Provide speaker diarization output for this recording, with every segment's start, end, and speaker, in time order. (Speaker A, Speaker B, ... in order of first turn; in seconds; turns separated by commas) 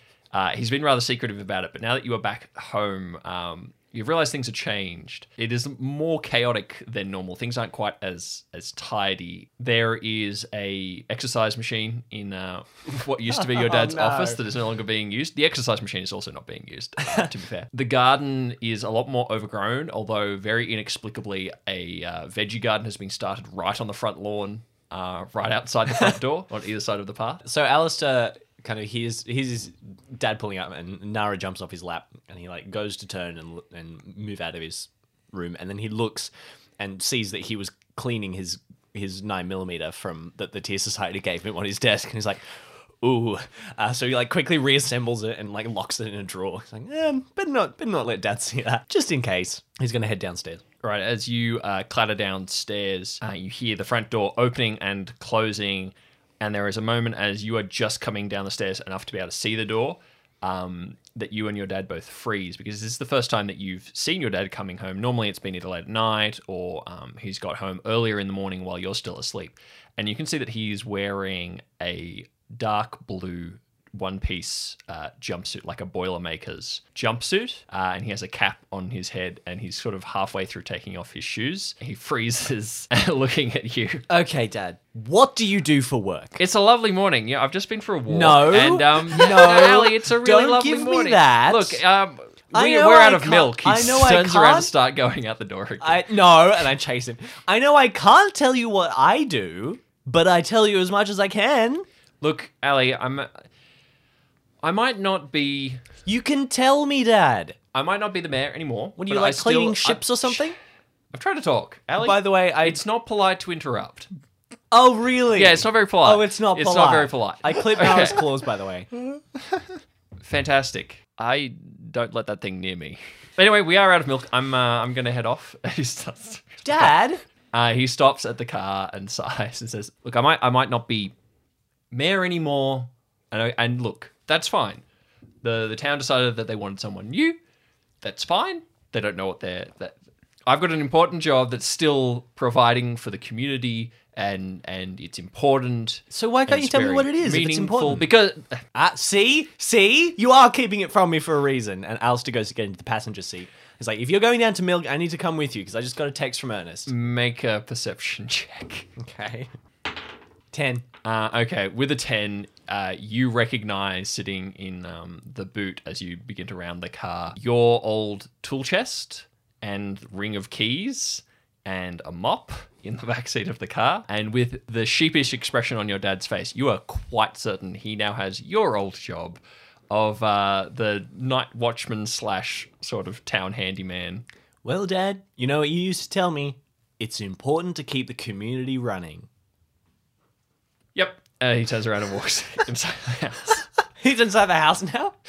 Speaker A: 0.3-27.4, Speaker B: 13.3-14.4, Speaker B: 27.4-42.4, Speaker B: 43.0-50.6, Speaker A: 50.8-84.0, Speaker B: 84.1-86.4, Speaker A: 86.4-96.0, Speaker B: 88.1-91.8, Speaker B: 92.5-94.7, Speaker B: 95.8-101.8, Speaker A: 102.2-103.4, Speaker A: 104.6-105.8, Speaker B: 106.0-107.6, Speaker A: 107.7-110.5, Speaker B: 109.0-110.5, Speaker A: 111.1-114.1, Speaker B: 112.0-112.8, Speaker B: 114.7-118.9, Speaker A: 115.3-118.2, Speaker A: 120.2-127.0, Speaker B: 126.6-127.2, Speaker A: 127.5-131.1, Speaker A: 131.9-134.8, Speaker A: 135.4-137.4, Speaker A: 138.0-148.6, Speaker B: 146.1-148.1, Speaker B: 148.7-156.9, Speaker A: 156.9-158.9, Speaker B: 159.0-159.5, Speaker B: 160.5-160.8, Speaker A: 161.0-184.2, Speaker B: 184.6-189.3, Speaker A: 190.9-193.7, Speaker B: 194.0-195.1